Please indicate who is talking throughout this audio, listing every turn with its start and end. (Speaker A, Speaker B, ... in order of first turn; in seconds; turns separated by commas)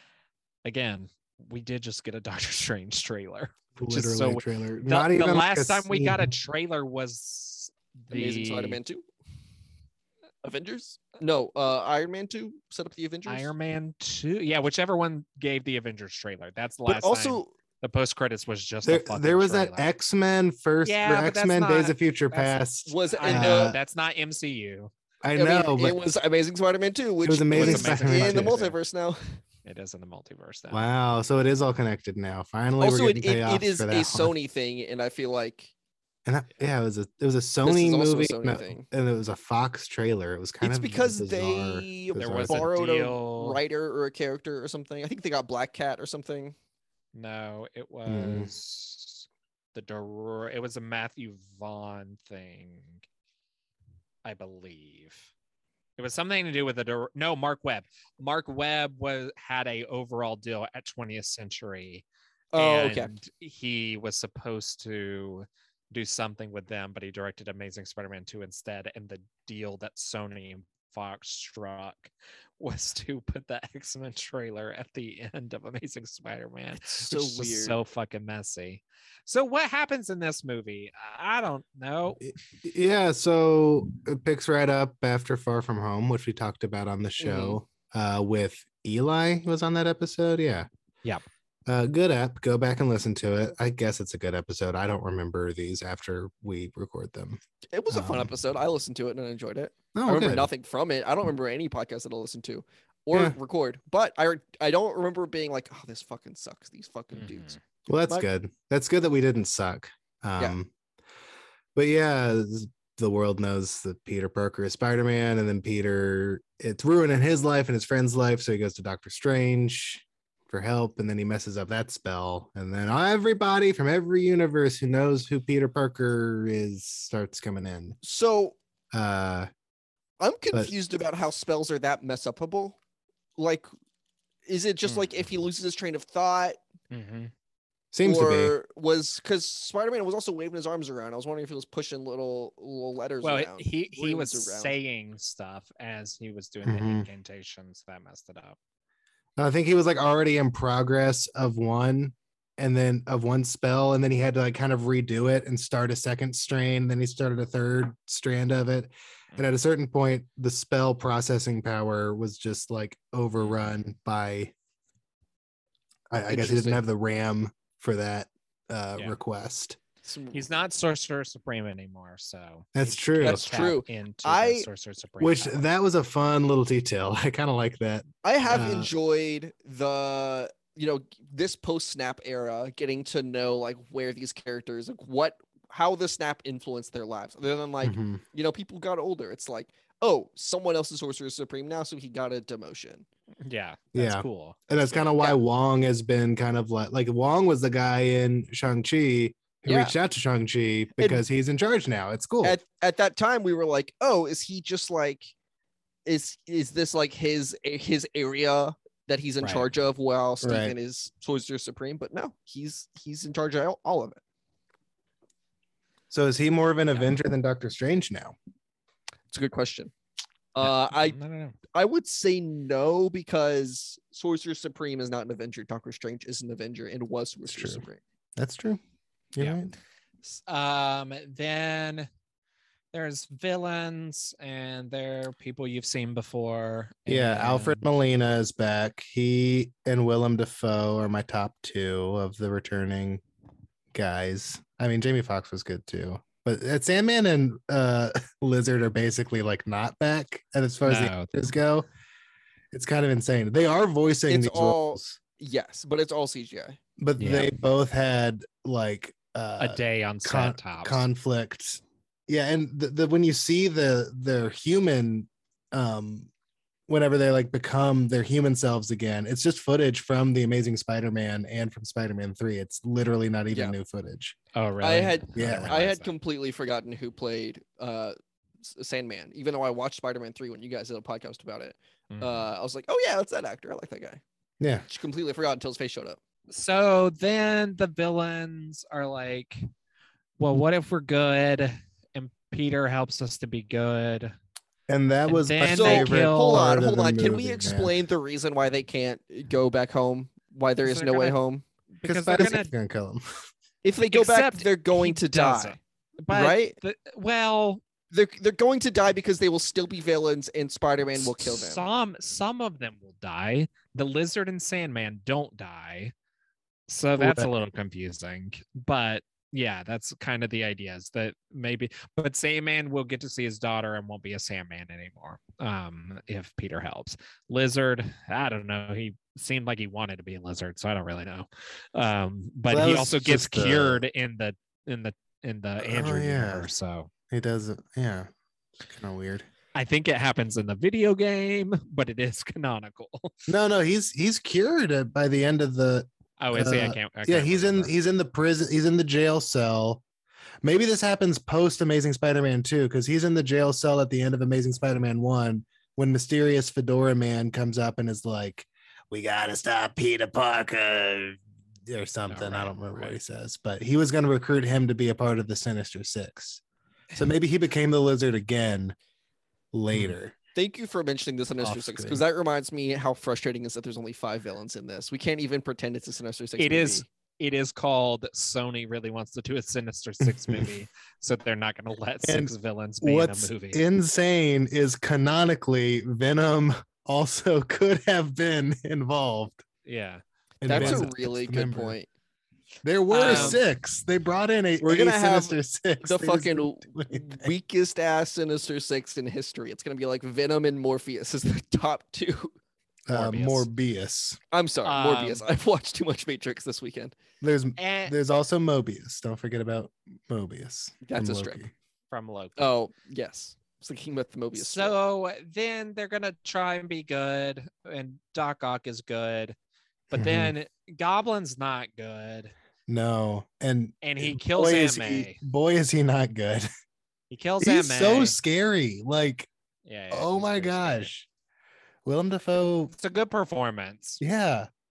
Speaker A: 0.6-8.8, Speaker B: 3.8-6.3, Speaker C: 8.1-9.0, Speaker C: 10.4-13.5, Speaker A: 13.2-19.8, Speaker C: 16.9-17.5, Speaker B: 18.8-23.8, Speaker A: 20.8-24.9, Speaker C: 22.9-23.8, Speaker B: 25.2-26.0, Speaker C: 25.4-29.2, Speaker B: 27.2-28.6, Speaker A: 27.5-28.8, Speaker A: 29.6-30.8, Speaker B: 30.7-34.3, Speaker C: 32.8-35.7, Speaker B: 36.2-42.7, Speaker C: 37.6-38.9, Speaker C: 40.6-46.5, Speaker A: 42.1-43.6, Speaker A: 47.1-53.0, Speaker B: 48.1-48.5, Speaker A: 54.2-55.3, Speaker A: 56.0-82.2, Speaker C: 62.5-63.1, Speaker C: 76.8-77.8, Speaker B: 82.2-90.7, Speaker C: 87.2-87.6, Speaker B: 91.7-97.4, Speaker C: 97.7-107.5, Speaker B: 97.9-98.3, Speaker B: 99.9-100.5, Speaker A: 107.1-107.6, Speaker B: 107.9-110.7, Speaker B: 111.7-128.0, Speaker C: 128.0-128.6, Speaker B: 128.9-129.5, Speaker C: 130.2-132.8, Speaker C: 133.4-133.7, Speaker C: 134.4-136.6, Speaker A: 134.8-135.1, Speaker A: 136.9-137.3, Speaker B: 137.9-138.5, Speaker C: 138.0-144.7, Speaker A: 143.2-148.6, Speaker B: 146.7-147.1, Speaker B: 149.4-164.5, Speaker A: 163.4-163.7, Speaker B: 166.1-169.8, Speaker C: 166.3-166.7, Speaker A: 166.4-166.8, Speaker C: 170.0-170.4, Speaker A: 170.3-175.7, Speaker B: 172.7-173.5, Speaker C: 173.2-174.7, Speaker B: 175.2-178.9, Speaker C: 178.2-193.0, Speaker B: 187.8-188.2, Speaker A: 193.4-195.1, Speaker B: 193.9-202.6, Speaker C: 199.7-199.9, Speaker C: 201.0-201.2, Speaker C: 202.4-205.3, Speaker C: 206.1-214.2, Speaker A: 209.4-209.7, Speaker B: 210.4-210.7, Speaker B: 216.1-218.3, Speaker C: 219.3-219.9, Speaker C: 220.5-221.2, Speaker A: 220.6-221.6, Speaker C: 221.7-228.0, Speaker B: 227.5-227.8, Speaker B: 228.4-228.8, Speaker B: 229.3-229.7, Speaker A: 230.2-232.1, Speaker A: 232.9-237.8, Speaker B: 237.1-243.2, Speaker B: 243.9-251.8, Speaker A: 250.8-251.3, Speaker B: 252.7-255.2, Speaker C: 254.3-256.8, Speaker B: 257.0-266.3, Speaker A: 257.2-257.5, Speaker A: 259.6-261.0, Speaker B: 266.9-274.4, Speaker C: 273.5-273.8, Speaker A: 274.5-276.1, Speaker C: 274.8-284.2, Speaker B: 275.4-275.8, Speaker A: 282.1-282.4, Speaker B: 284.6-284.8, Speaker C: 284.9-286.2, Speaker A: 286.5-289.7, Speaker A: 290.4-294.3, Speaker B: 294.9-297.9, Speaker A: 295.3-296.7, Speaker C: 295.7-301.6, Speaker A: 300.8-301.4, Speaker A: 302.0-302.7, Speaker B: 302.0-303.2, Speaker C: 303.8-305.8, Speaker A: 304.1-307.8, Speaker C: 306.3-306.7, Speaker C: 308.1-311.8, Speaker A: 311.2-316.1, Speaker A: 316.9-337.1, Speaker B: 317.2-317.5, Speaker B: 332.7-334.0, Speaker B: 335.8-336.7, Speaker B: 337.3-338.3, Speaker B: 338.8-339.5, Speaker A: 339.7-343.4, Speaker B: 343.5-350.0, Speaker A: 346.4-347.9, Speaker B: 350.6-366.6, Speaker A: 362.3-363.2, Speaker B: 367.1-368.9, Speaker B: 369.7-370.4, Speaker C: 370.5-377.1, Speaker B: 371.6-372.2, Speaker A: 376.6-383.8, Speaker B: 380.2-380.7, Speaker B: 382.2-389.6, Speaker A: 389.8-391.1, Speaker B: 390.6-392.0, Speaker C: 390.6-392.1, Speaker B: 392.8-397.5, Speaker A: 393.1-393.6, Speaker C: 393.2-393.6, Speaker C: 394.8-402.5, Speaker B: 403.1-404.4, Speaker A: 403.1-403.7, Speaker C: 404.5-407.1, Speaker A: 404.8-405.4, Speaker B: 407.4-411.7, Speaker A: 407.8-408.1, Speaker C: 411.0-411.6, Speaker A: 412.1-412.7, Speaker C: 412.6-414.9, Speaker A: 414.6-419.6, Speaker A: 420.1-422.5, Speaker B: 420.1-420.5, Speaker B: 422.9-426.7, Speaker A: 424.0-425.4, Speaker A: 427.3-428.4, Speaker B: 427.6-429.5, Speaker A: 429.9-431.1, Speaker B: 430.1-431.3, Speaker B: 432.0-432.9, Speaker A: 432.9-434.2, Speaker B: 434.2-434.7